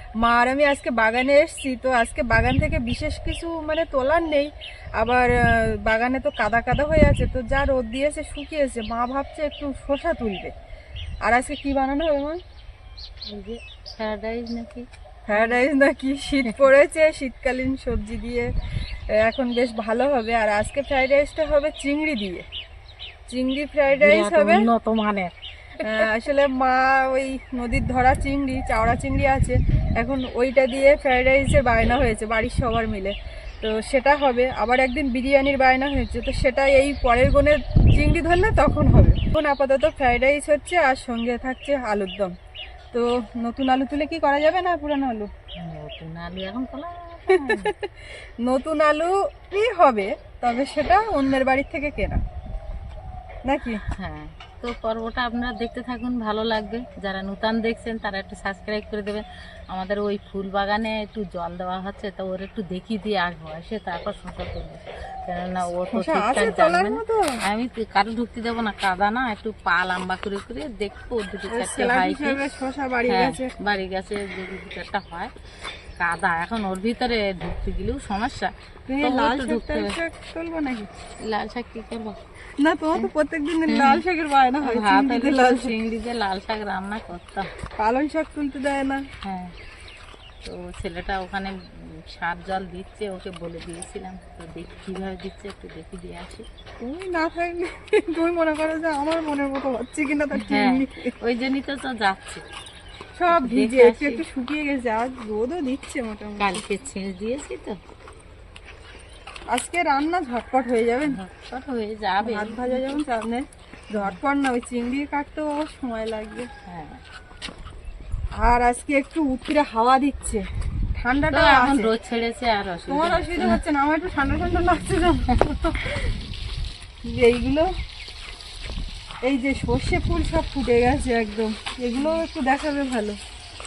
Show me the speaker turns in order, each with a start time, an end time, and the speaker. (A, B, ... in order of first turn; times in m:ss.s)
0:00.2-0:10.5 A
0:11.2-0:12.4 A
0:13.2-0:15.6 B
0:15.3-0:18.5 A
0:19.1-0:22.4 A
0:23.3-0:24.7 A
0:23.9-0:26.1 B
0:25.8-0:42.3 A
0:42.9-0:45.3 A
0:45.6-0:47.7 B
0:47.3-0:52.2 A
0:53.4-0:53.8 A
0:53.9-1:12.4 B
1:05.9-1:07.3 A
1:11.5-1:13.5 A
1:13.1-1:15.3 B
1:16.0-1:20.0 B
1:18.9-1:20.9 A
1:21.2-1:22.2 B
1:22.6-1:25.7 A
1:23.7-1:24.0 B
1:24.6-1:27.5 B
1:27.8-1:29.0 A
1:29.2-1:29.5 B
1:30.4-1:36.4 B
1:36.8-1:41.1 A
1:40.3-1:42.4 B
1:43.2-1:46.6 A
1:43.3-1:44.2 B
1:46.4-1:47.8 B
1:49.5-1:51.2 A
1:51.1-1:53.0 B
1:52.2-1:56.5 A
1:56.7-1:57.0 B
1:58.4-2:00.4 A
2:01.0-2:01.9 A
2:01.3-2:03.6 B
2:02.9-2:06.1 A
2:07.0-2:07.7 A
2:09.2-2:13.2 A